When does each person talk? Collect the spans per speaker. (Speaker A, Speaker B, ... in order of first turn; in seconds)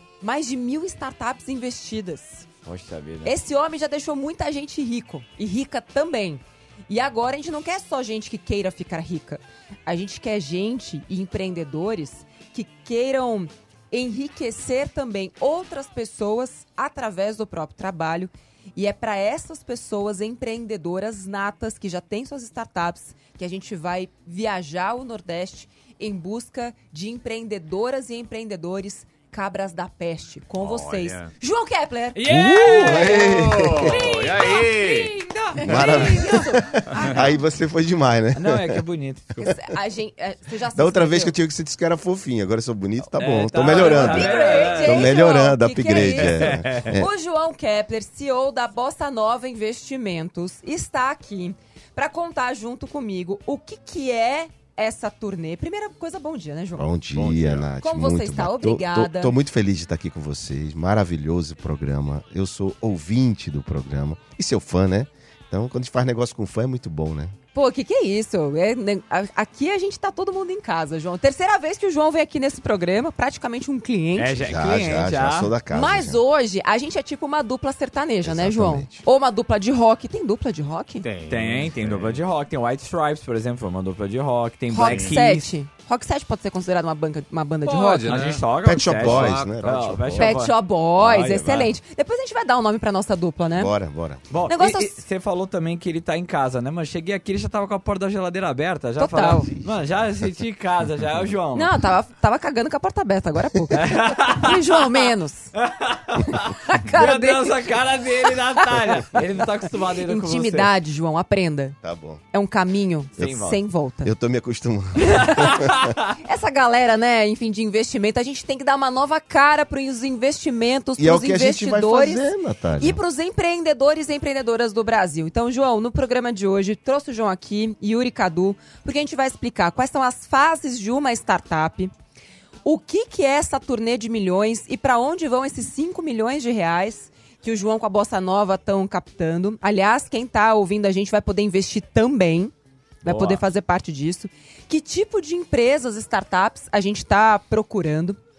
Speaker A: 0.2-2.5, 3.2-32.2, 33.8-37.2, 39.4-41.3, 43.7-56.9, 57.8-59.3, 67.5-74.3, 75.7-81.0, 84.7-88.2, 90.2-93.7, 94.5-95.0, 99.0-99.5, 101.5-105.5, 106.3-107.7, 108.3-109.2, 110.0-111.8, 112.3-114.1, 115.1-115.6, 116.2-131.9, 132.7-142.5, 143.0-148.2
Speaker B: 2.6-3.3, 32.1-33.6, 38.4-39.5, 43.1-45.2, 45.9-47.0, 74.2-75.5, 81.3-85.5, 88.1-91.7, 94.3-101.8, 103.7-104.7, 105.6-110.7, 113.2-113.6, 115.2-116.1, 143.0-143.4
Speaker C: 30.6-31.3, 32.8-35.1, 57.1-57.7, 81.0-82.2, 84.8-85.2, 87.7-89.9
Speaker D: 32.3-34.0, 35.6-38.8, 40.8-47.1, 56.8-67.3, 74.4-76.2, 78.2-79.0, 88.6-90.3, 93.5-94.2, 99.4-99.8, 111.8-112.2, 114.0-115.9, 121.0-123.0